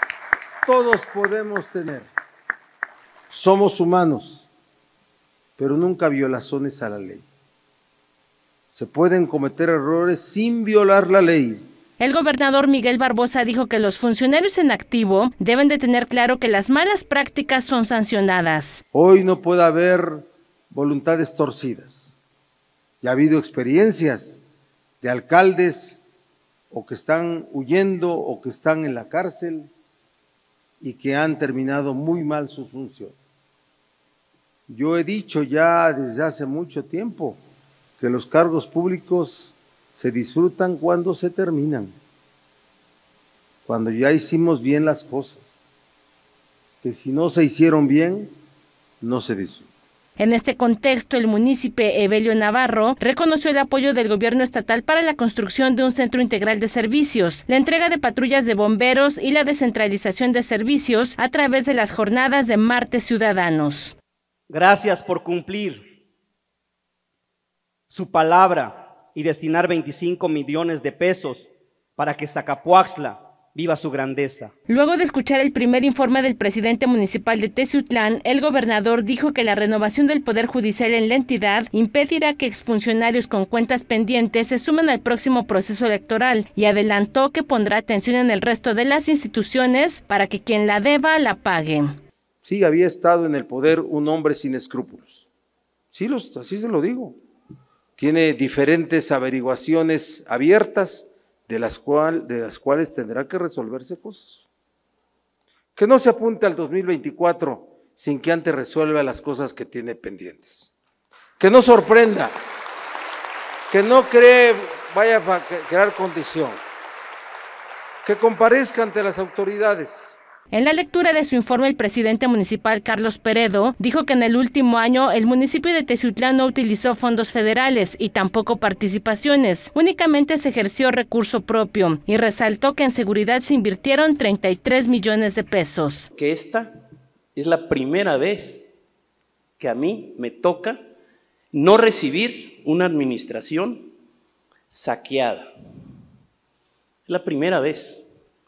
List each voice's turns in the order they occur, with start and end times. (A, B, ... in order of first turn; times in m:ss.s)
0:00.6-0:02.1 A
0:03.3-0:04.5 A
0:05.6-0:07.2 A
0:08.7-0:11.6 A
0:12.0-0:18.8 B
0:18.9-0:22.1 A
0:23.0-0:24.4 A
0:25.0-0:26.0 A
0:26.7-0:29.7 A
0:30.8-0:33.1 A
0:34.7-0:37.4 A
0:38.0-0:41.9 A
0:43.6-0:45.4 A
0:46.8-0:48.3 A
0:49.0-0:49.7 A
0:50.2-1:04.0 B
1:04.5-1:05.8 C
1:07.9-1:14.5 C
1:14.7-1:31.9 B
1:32.4-1:35.2 A
1:35.9-1:37.2 A
1:38.0-1:44.4 A
1:45.8-1:50.7 A
1:51.4-1:52.3 A
1:53.7-1:56.6 A
1:58.0-2:00.1 A
2:00.5-2:16.1 B
2:16.1-2:16.7 D
2:17.3-2:18.7 D
2:19.6-2:20.8 D
2:21.5-2:23.9 D
2:24.7-2:25.4 D
2:27.1-2:28.0 D